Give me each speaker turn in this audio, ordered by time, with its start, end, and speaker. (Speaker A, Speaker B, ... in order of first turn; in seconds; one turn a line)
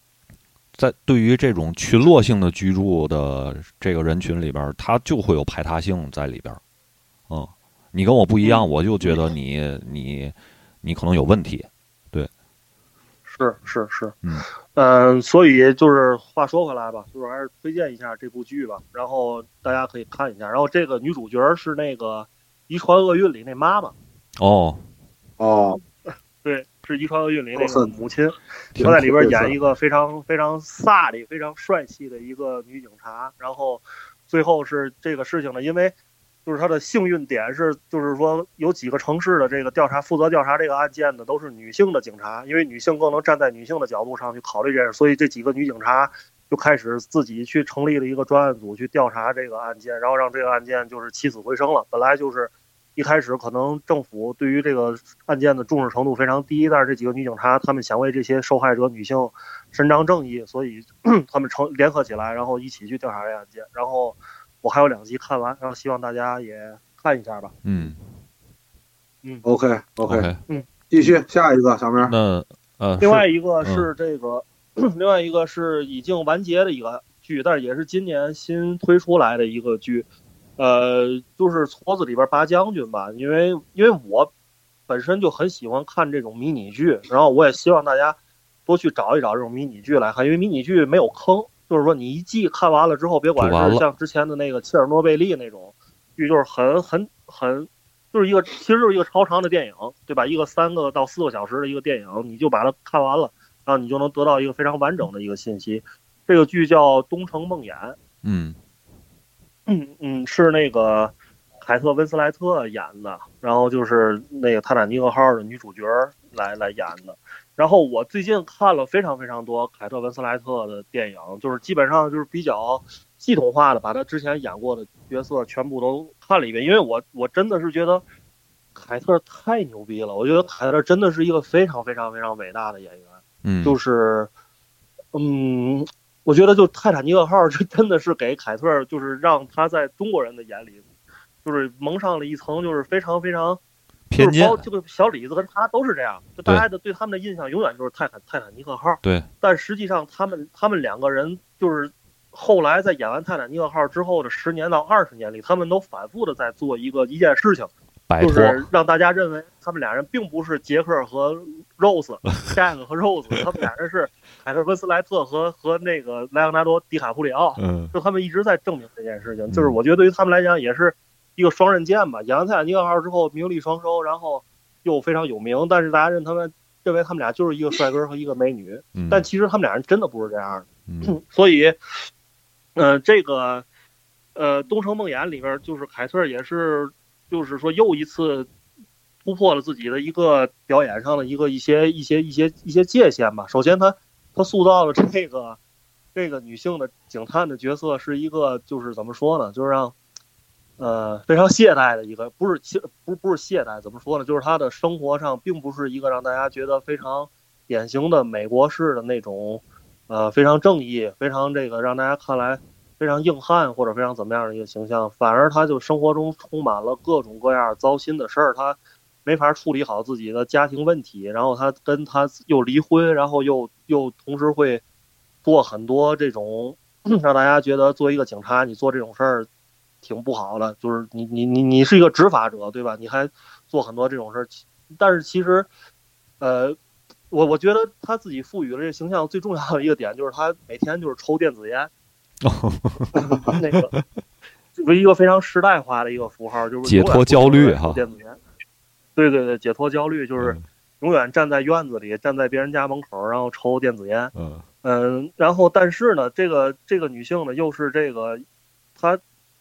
Speaker A: 0.8-6.6
Speaker A: 7.3-12.3
Speaker B: 8.4-9.2
Speaker B: 13.3-14.2
Speaker B: 14.7-23.9
Speaker A: 24.4-24.8
Speaker C: 25.4-25.8
Speaker B: 26.4-36.0
Speaker C: 27.6-28.0
Speaker A: 28.8-29.3
Speaker C: 29.2-29.5
Speaker B: 36.5-67.5
Speaker A: 67.6-68.0
Speaker C: 69.4-70.3
Speaker A: 70.0-70.4
Speaker C: 70.9-72.1
Speaker A: 72.0-73.9
Speaker B: 73.0-80.1
Speaker B: 80.6-84.3
Speaker B: 84.9-108.0
Speaker A: 93.4-93.9
Speaker A: 108.2-108.6
Speaker B: 109.7-128.0
Speaker B: 128.8-134.3
Speaker A: 133.4-133.8
Speaker B: 135.1-140.8
Speaker B: 141.4-143.6
Speaker A: 144.1-144.7
Speaker B: 144.2-182.1
Speaker A: 158.1-158.6
Speaker A: 167.6-167.9
Speaker A: 169.5-169.8
Speaker A: 178.9-179.2
Speaker A: 180.9-181.2
Speaker B: 182.8-183.7
Speaker B: 184.3-188.5
Speaker B: 189.2-195.6
Speaker B: 196.2-199.9
Speaker B: 200.8-224.8
Speaker B: 225.4-229.5
Speaker B: 230.0-235.7
Speaker B: 236.4-236.8
Speaker B: 237.3-241.9
Speaker A: 242.4-243.1
Speaker B: 243.4-243.9
Speaker B: 244.8-248.4
Speaker A: 246.8-248.0
Speaker B: 249.2-258.4
Speaker A: 254.3-254.6